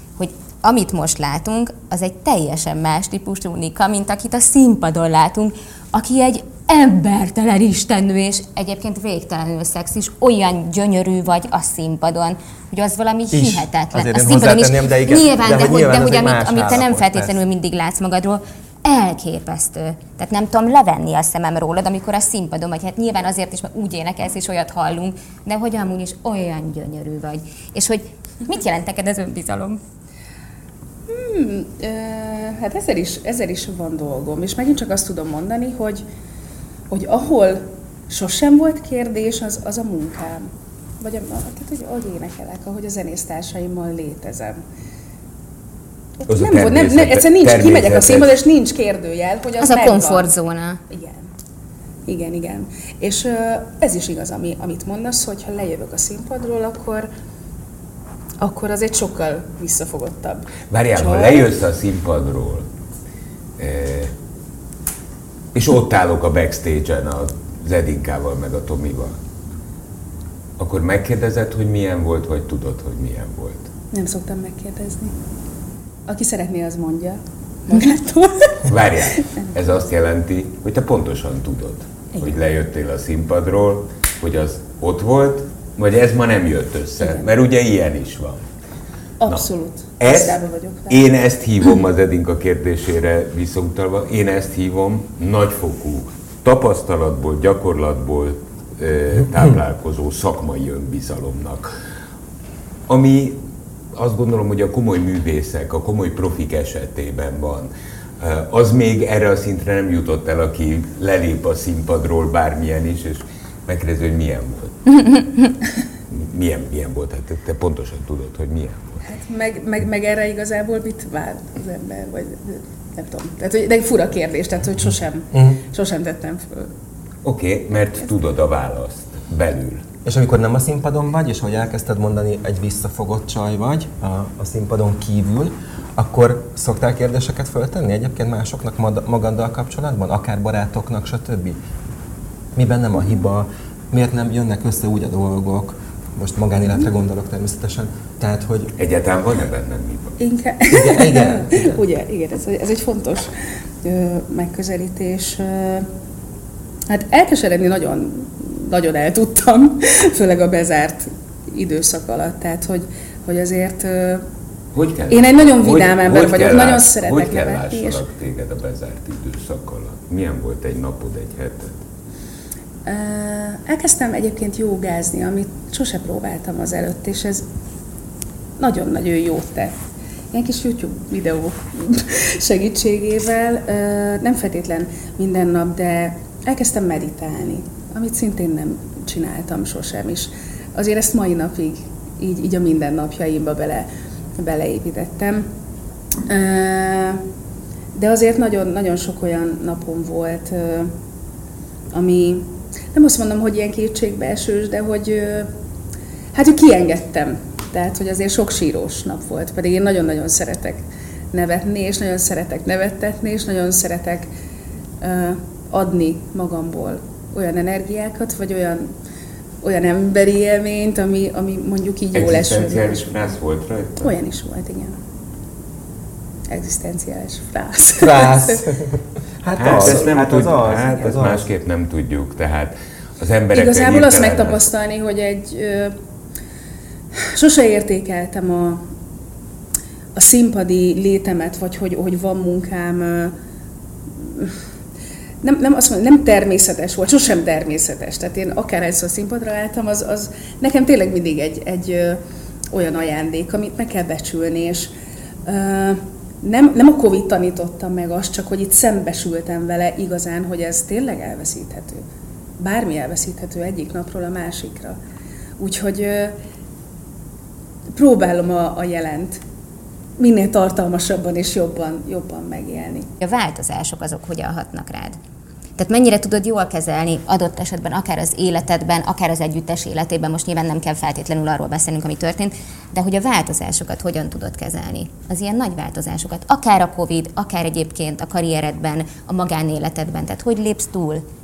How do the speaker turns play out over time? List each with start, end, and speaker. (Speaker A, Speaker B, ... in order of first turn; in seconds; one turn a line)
Speaker A: 0.2-29.8
Speaker B: 13.3-17.3
Speaker C: 31.1-36.0
Speaker C: 36.9-40.5
Speaker C: 41.0-44.6
Speaker C: 46.2-50.3
Speaker D: 46.3-48.4
Speaker A: 49.6-50.8
Speaker C: 50.9-51.2
Speaker C: 52.0-57.1
Speaker C: 58.4-61.5
Speaker D: 60.7-62.7
Speaker D: 63.6-64.1
Speaker D: 65.5-69.2
Speaker D: 70.6-73.7
Speaker C: 73.9-75.1
Speaker C: 76.1-79.2
Speaker D: 78.7-88.4
Speaker C: 89.2-91.0
Speaker D: 90.0-101.7
Speaker D: 102.9-103.4
Speaker D: 103.9-115.2
Speaker D: 116.1-119.0
Speaker C: 119.0-126.7
Speaker D: 127.2-129.8
Speaker B: 130.0-141.6
Speaker B: 142.5-148.7
Speaker D: 148.8-150.2
Speaker C: 150.2-153.3
Speaker B: 150.7-151.8
Speaker C: 153.8-155.9
Speaker C: 156.9-164.2
Speaker D: 164.7-171.8
Speaker C: 165.1-168.0
Speaker C: 172.8-177.4
Speaker C: 178.6-179.7
Speaker C: 180.3-195.4
Speaker C: 196.2-197.2
Speaker C: 197.9-200.9
Speaker C: 201.9-205.5
Speaker C: 206.3-214.3
Speaker C: 215.0-218.9
Speaker C: 219.6-223.1
Speaker D: 222.1-224.1
Speaker C: 224.0-224.9
Speaker C: 226.5-228.6
Speaker B: 228.0-231.5
Speaker D: 229.6-234.6
Speaker C: 229.7-230.2
Speaker C: 233.5-235.9
Speaker C: 237.3-238.8
Speaker C: 240.1-243.3
Speaker C: 244.2-244.5
Speaker C: 245.4-252.2
Speaker C: 252.7-254.9
Speaker C: 255.4-262.0
Speaker C: 262.6-265.0
Speaker C: 265.6-266.3
Speaker C: 267.9-269.4
Speaker C: 270.2-273.1
Speaker A: 273.2-275.2
Speaker A: 275.8-291.2